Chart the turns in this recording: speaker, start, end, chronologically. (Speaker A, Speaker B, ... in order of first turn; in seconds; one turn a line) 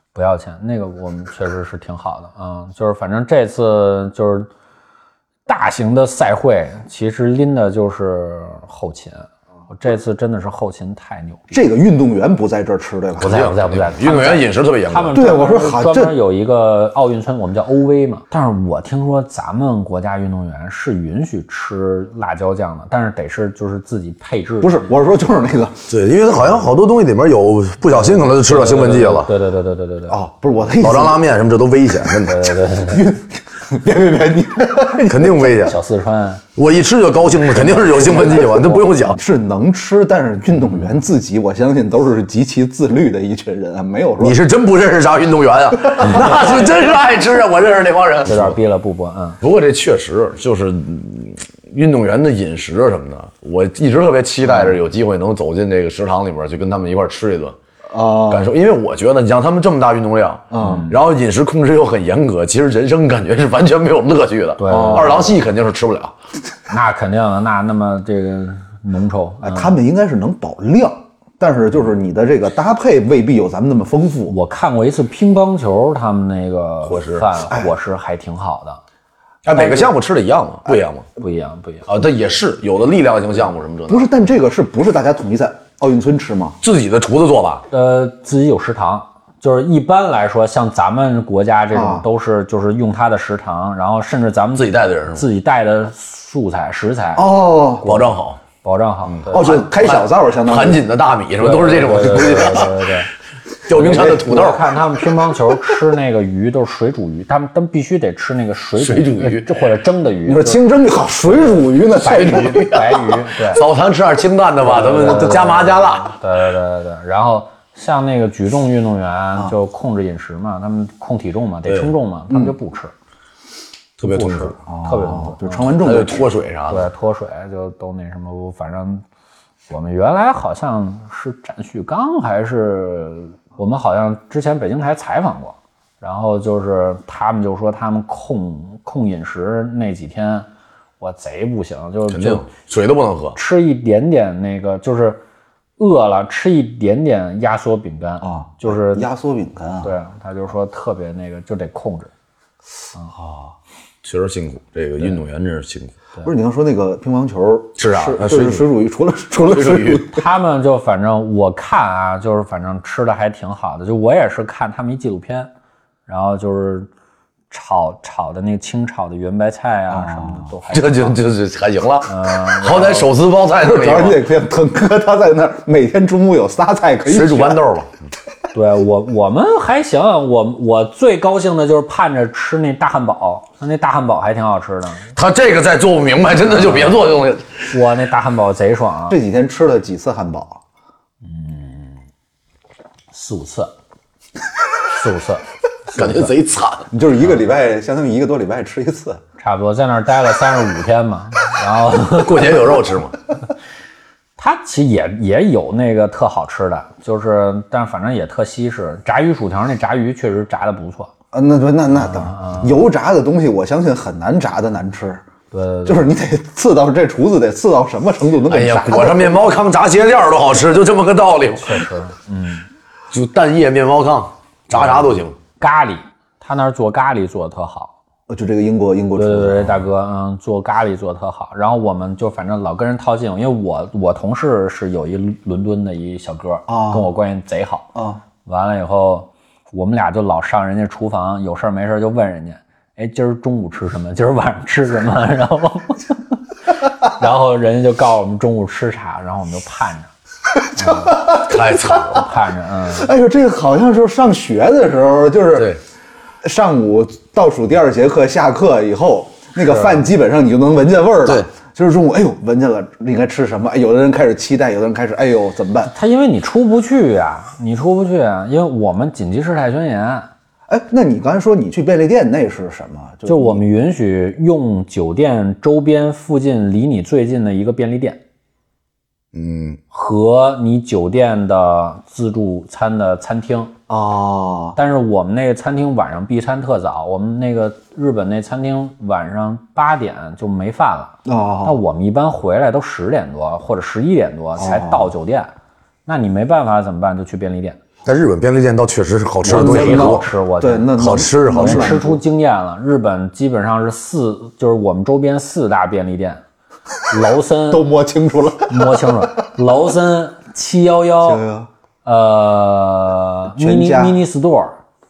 Speaker A: 0.1-4.5
Speaker A: 5.5-11.4
Speaker B: 11.5-13.5
Speaker C: 13.2-15.2
Speaker A: 13.2-24.9
Speaker B: 15.1-16.1
Speaker B: 24.6-25.9
Speaker C: 25.9-29.3
Speaker A: 27.9-30.2
Speaker B: 30.1-31.2
Speaker C: 30.8-32.5
Speaker A: 32.2-33.1
Speaker B: 32.9-35.5
Speaker C: 35.0-35.8
Speaker A: 35.6-36.4
Speaker C: 36.5-39.2
Speaker A: 37.7-39.1
Speaker B: 37.8-44.4
Speaker C: 44.2-48.6
Speaker A: 48.3-49.4
Speaker C: 49.4-57.5
Speaker B: 54.5-54.8
Speaker B: 57.9-58.5
Speaker C: 58.3-66.1
Speaker B: 60.5-60.9
Speaker A: 60.6-60.9
Speaker A: 64.6-65.2
Speaker B: 64.7-65.3
Speaker A: 66.7-69.8
Speaker B: 69.4-74.3
Speaker A: 74.3-78.8
Speaker C: 76.8-77.2
Speaker C: 79.4-81.0
Speaker A: 79.5-79.9
Speaker A: 81.2-81.8
Speaker C: 81.9-84.1
Speaker B: 83.9-86.6
Speaker C: 86.6-87.6
Speaker A: 87.7-99.6
Speaker B: 91.7-92.0
Speaker C: 94.5-95.2
Speaker B: 97.2-97.9
Speaker C: 97.8-98.4
Speaker C: 99.0-102.9
Speaker B: 99.3-100.8
Speaker A: 101.4-103.1
Speaker C: 103.6-104.7
Speaker B: 103.7-104.5
Speaker A: 103.7-110.6
Speaker C: 108.8-109.5
Speaker B: 110.2-112.7
Speaker A: 111.2-113.6
Speaker C: 112.0-116.2
Speaker A: 114.6-122.9
Speaker C: 124.0-124.5
Speaker A: 124.0-125.8
Speaker B: 124.6-126.3
Speaker C: 125.8-126.9
Speaker A: 126.7-129.0
Speaker A: 129.7-140.5
Speaker A: 141.0-142.4
Speaker C: 142.1-143.4
Speaker A: 143.3-145.2
Speaker A: 145.8-149.1
Speaker B: 148.2-149.9
Speaker A: 149.8-152.1
Speaker B: 153.1-153.5
Speaker C: 154.0-155.9
Speaker B: 156.2-160.2
Speaker C: 157.8-158.7
Speaker C: 159.5-160.1
Speaker A: 160.1-165.5
Speaker A: 166.1-166.9
Speaker A: 167.5-171.2
Speaker B: 169.9-170.5
Speaker C: 170.7-174.2
Speaker A: 172.1-173.1
Speaker B: 173.6-177.6
Speaker C: 177.1-177.9
Speaker A: 178.5-185.1
Speaker C: 185.1-187.7
Speaker A: 186.5-187.0
Speaker A: 187.7-189.2
Speaker B: 189.1-190.6
Speaker A: 191.2-192.0
Speaker A: 193.1-193.7
Speaker A: 194.8-196.3
Speaker C: 195.9-196.9
Speaker B: 196.9-199.2
Speaker A: 199.4-202.6
Speaker C: 202.1-203.1
Speaker A: 204.4-211.1
Speaker B: 211.3-215.2
Speaker A: 211.9-212.8
Speaker A: 215.5-216.1
Speaker B: 215.8-219.4
Speaker C: 218.5-221.9
Speaker A: 221.6-222.7
Speaker C: 223.1-225.4
Speaker A: 225.6-227.9
Speaker B: 228.3-229.8
Speaker A: 229.2-237.9
Speaker B: 236.7-237.1
Speaker B: 237.9-238.2
Speaker A: 238.4-250.1
Speaker A: 250.7-253.1
Speaker B: 250.8-251.8
Speaker C: 251.2-252.2
Speaker B: 252.8-255.7
Speaker B: 256.4-265.9
Speaker A: 259.6-260.0
Speaker A: 265.9-270.3
Speaker B: 270.7-273.6
Speaker A: 273.2-278.2
Speaker C: 279.3-279.8
Speaker A: 279.9-283.7
Speaker B: 283.9-284.8
Speaker A: 284.8-295.5
Speaker B: 291.2-291.8
Speaker B: 294.6-295.1
Speaker A: 296.1-297.8
Speaker C: 298.0-300.3
Speaker B: 299.4-302.2
Speaker A: 299.4-306.4
Speaker C: 301.0-302.0
Speaker A: 307.1-307.8
Speaker B: 307.7-309.3
Speaker A: 308.7-311.4
Speaker B: 311.2-311.7
Speaker A: 312.0-314.8
Speaker B: 313.6-314.2